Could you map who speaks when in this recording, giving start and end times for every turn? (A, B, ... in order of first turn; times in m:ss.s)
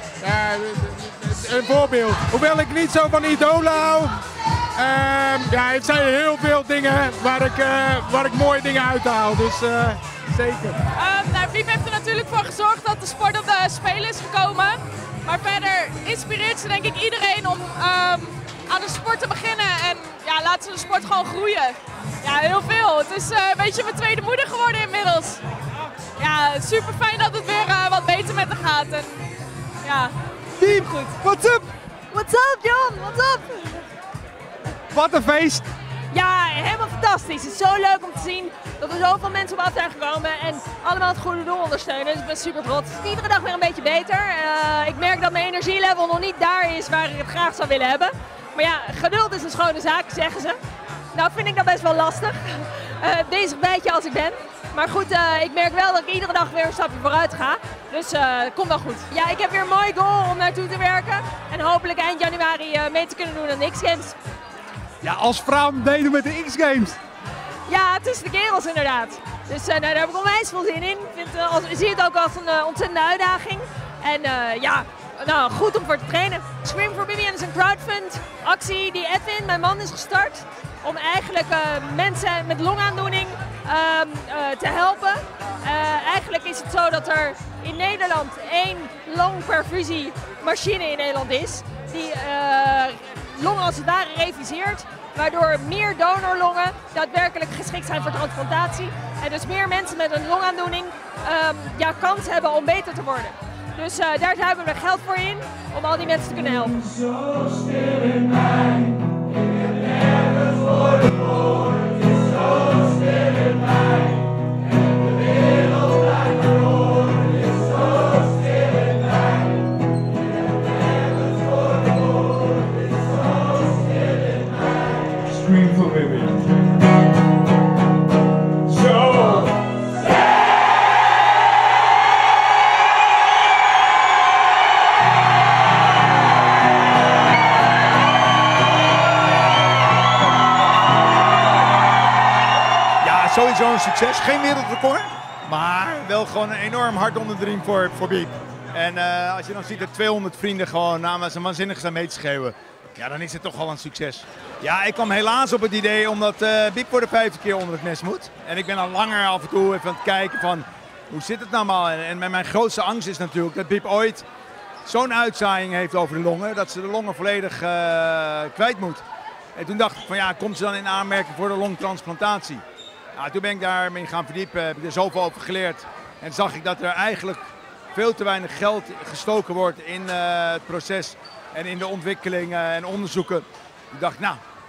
0:00.2-0:04.2 A
0:04.8-0:10.8 A
0:11.0-0:25.4 B
0:26.2-0:29.2 B
0:29.9-0:30.1 B
0:30.6-0:31.7 C
0:32.1-0:33.8 D
0:34.9-0:35.7 C
0:36.1-0:50.6 D
0:51.1-1:04.2 D
1:05.0-1:07.0 C
1:07.7-1:48.9 D
2:05.3-2:06.5 C
2:08.8-2:09.5 C
2:23.0-2:44.3 E
2:44.8-2:49.0 E
2:49.6-2:52.6 E
2:53.2-3:04.4 E